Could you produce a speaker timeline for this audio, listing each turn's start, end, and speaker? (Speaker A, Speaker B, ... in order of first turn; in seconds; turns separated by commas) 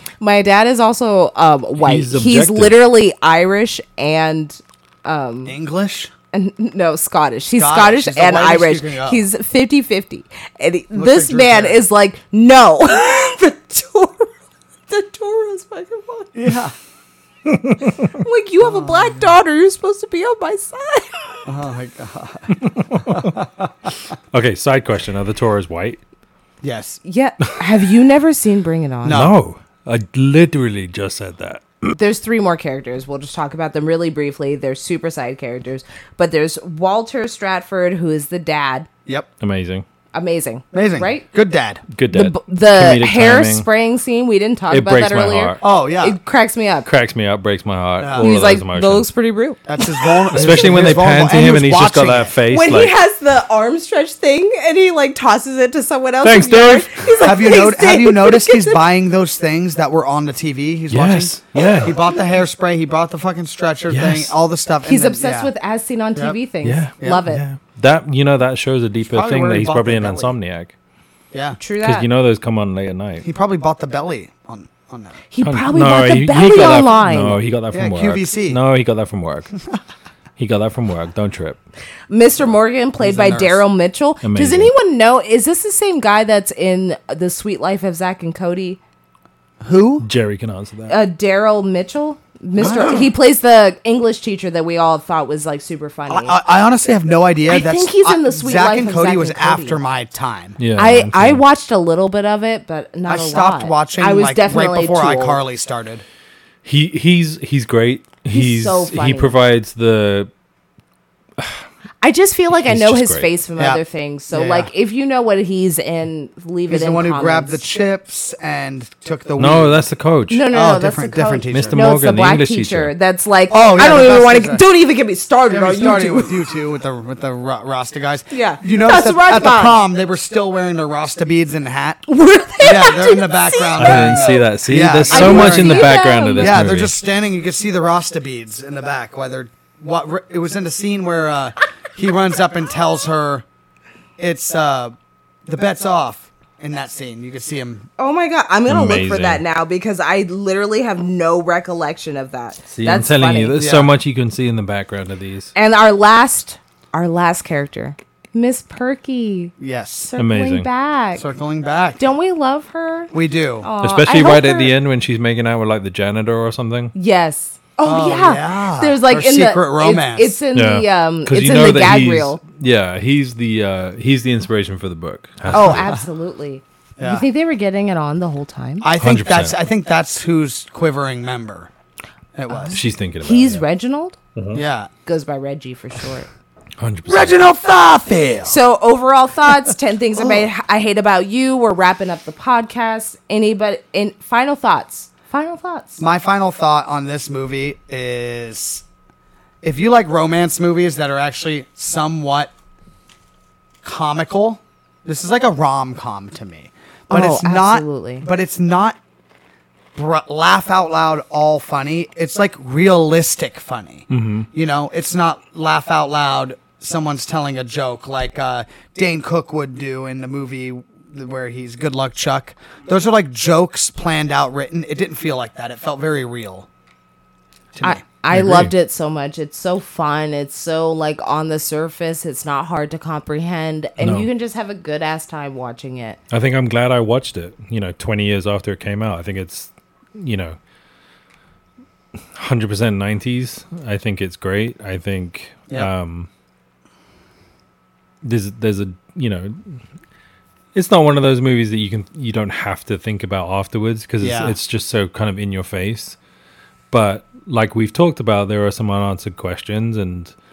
Speaker A: 0.2-5.5, Speaker B: 1.8-2.8, Speaker C: 5.5-6.1, Speaker A: 6.3-14.3, Speaker C: 7.6-9.2, Speaker C: 10.9-11.8, Speaker A: 14.9-16.3, Speaker C: 16.3-16.7, Speaker B: 17.4-18.1, Speaker A: 18.1-21.4, Speaker C: 18.6-19.4, Speaker C: 21.4-23.9, Speaker B: 22.7-23.3, Speaker B: 24.3-26.0, Speaker C: 26.6-27.0, Speaker A: 27.0-29.2, Speaker C: 29.0-29.4, Speaker B: 29.1-31.9, Speaker A: 31.9-38.9, Speaker B: 39.4-39.9, Speaker A: 40.1-41.3, Speaker C: 40.7-41.8, Speaker B: 41.9-43.7, Speaker A: 42.1-46.9, Speaker B: 44.7-45.6, Speaker C: 45.6-46.2, Speaker B: 46.9-49.1, Speaker C: 48.0-48.3, Speaker A: 48.2-50.8, Speaker C: 49.6-52.3, Speaker B: 50.4-52.9, Speaker A: 52.5-58.9, Speaker B: 56.2-57.3, Speaker C: 57.2-65.5, Speaker B: 60.9-61.9, Speaker B: 63.9-64.3, Speaker A: 64.8-67.4, Speaker B: 66.6-70.7, Speaker C: 69.0-70.3, Speaker C: 71.3-71.6, Speaker A: 71.6-72.1, Speaker B: 71.8-73.2, Speaker C: 73.2-75.2, Speaker A: 75.3-77.4, Speaker B: 75.4-79.5, Speaker C: 77.7-78.6, Speaker B: 80.4-81.6, Speaker A: 82.1-88.8, Speaker C: 83.0-83.6, Speaker B: 84.2-84.7, Speaker C: 89.6-90.1, Speaker B: 90.0-91.0, Speaker A: 90.9-96.4, Speaker C: 92.6-93.1, Speaker C: 96.1-100.6, Speaker A: 97.5-99.8, Speaker B: 100.6-101.4, Speaker A: 100.8-105.4, Speaker C: 103.1-106.0, Speaker B: 106.6-110.3, Speaker A: 108.3-109.4, Speaker B: 111.4-111.7, Speaker A: 112.0-117.6, Speaker B: 112.5-113.3, Speaker C: 113.6-114.7, Speaker C: 116.7-119.9, Speaker B: 119.4-120.5, Speaker A: 120.3-126.4, Speaker C: 120.5-121.8, Speaker B: 121.5-122.9, Speaker C: 123.5-124.6, Speaker C: 125.5-132.1, Speaker A: 128.3-129.8, Speaker A: 132.1-134.4, Speaker C: 132.6-143.4, Speaker B: 133.8-136.9, Speaker A: 135.1-136.7, Speaker C: 144.2-144.9, Speaker C: 145.4-147.9, Speaker A: 148.0-153.6, Speaker B: 148.7-149.4, Speaker B: 152.7-155.5, Speaker C: 153.6-153.9, Speaker A: 155.6-161.2, Speaker C: 159.6-160.1, Speaker B: 160.2-160.7, Speaker C: 161.2-162.0, Speaker A: 162.0-164.7, Speaker C: 163.1-163.7, Speaker B: 163.8-166.9, Speaker A: 166.9-172.4, Speaker C: 167.8-170.4, Speaker B: 170.5-175.9, Speaker C: 175.5-176.1, Speaker A: 175.5-178.9, Speaker C: 177.0-177.2, Speaker C: 178.8-181.7, Speaker B: 179.0-179.6, Speaker C: 182.4-182.8, Speaker A: 182.5-184.2, Speaker B: 182.7-183.6, Speaker B: 184.4-184.6, Speaker C: 184.5-184.9, Speaker A: 185.1-186.3, Speaker B: 186.8-187.4, Speaker C: 187.1-188.6, Speaker A: 188.4-196.0, Speaker C: 190.2-190.5, Speaker C: 196.0-198.8, Speaker C: 199.6-202.5, Speaker C: 203.8-209.0, Speaker A: 207.1-208.3, Speaker C: 209.9-226.7, Speaker B: 214.1-214.5, Speaker C: 227.7-228.0, Speaker A: 227.8-236.2, Speaker B: 228.3-228.7, Speaker B: 234.0-234.3, Speaker B: 236.3-240.6, Speaker B: 242.2-246.3, Speaker B: 248.2-249.8, Speaker B: 250.7-256.2, Speaker C: 254.2-254.6, Speaker B: 256.9-260.3